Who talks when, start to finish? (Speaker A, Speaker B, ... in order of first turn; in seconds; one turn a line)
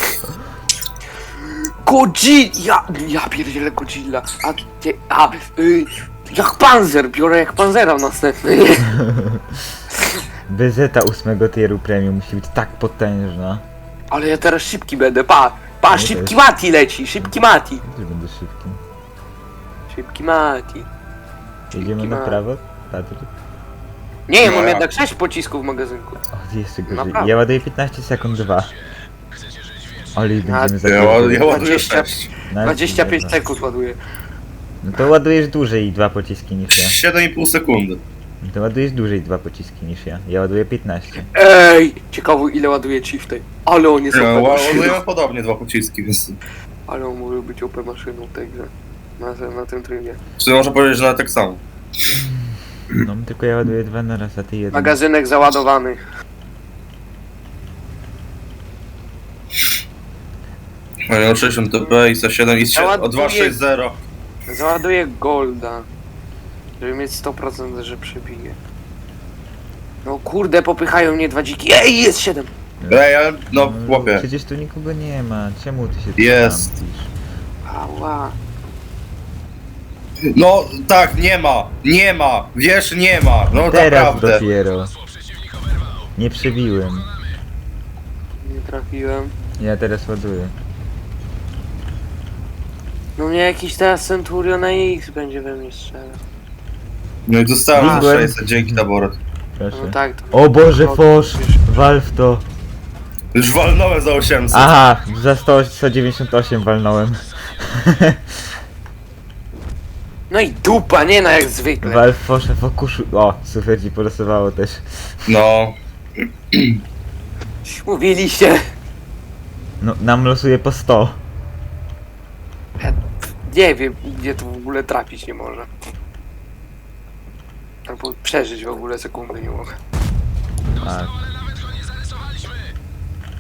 Speaker A: 1.4-9.0
Speaker B: 8.9-9.8
Speaker A: 10.0-10.2
Speaker B: 10.5-13.7
Speaker A: 14.1-17.8
Speaker B: 15.9-16.4
Speaker B: 17.2-18.8
Speaker A: 19.9-20.9
Speaker A: 21.7-22.4
Speaker B: 21.7-23.3
Speaker A: 24.3-26.2
Speaker C: 24.4-24.9
Speaker B: 26.3-28.7
Speaker A: 26.9-27.3
Speaker B: 30.1-31.7
Speaker A: 30.4-34.0
Speaker C: 30.9-32.3
Speaker B: 32.5-33.4
Speaker B: 34.8-37.0
Speaker C: 36.8-38.0
Speaker B: 38.4-41.3
Speaker A: 41.3-45.0
Speaker C: 44.1-46.4
Speaker A: 46.9-50.2
Speaker C: 50.4-51.6
Speaker B: 52.1-55.0
Speaker A: 54.7-56.0
Speaker C: 61.1-64.0
Speaker A: 61.5-61.9
Speaker A: 62.7-63.6
Speaker A: 64.5-65.9
Speaker A: 66.8-68.6
Speaker A: 70.0-72.5
Speaker B: 72.8-77.1
Speaker C: 72.9-74.3
Speaker C: 76.2-76.7
Speaker A: 77.7-78.4
Speaker C: 80.3-84.5
Speaker B: 83.5-84.9
Speaker B: 86.2-87.1
Speaker A: 88.4-89.3
Speaker B: 89.6-90.5
Speaker A: 93.2-96.2
Speaker C: 97.3-99.2
Speaker B: 97.7-98.8
Speaker A: 97.8-98.1
Speaker B: 99.6-102.5
Speaker A: 99.7-101.6
Speaker C: 103.3-104.7
Speaker B: 104.5-108.2
Speaker A: 110.3-112.0
Speaker B: 111.8-114.8
Speaker C: 115.3-116.8
Speaker A: 117.7-118.6
Speaker B: 119.8-121.2
Speaker A: 122.8-125.7
Speaker A: 127.9-129.7
Speaker B: 130.8-131.2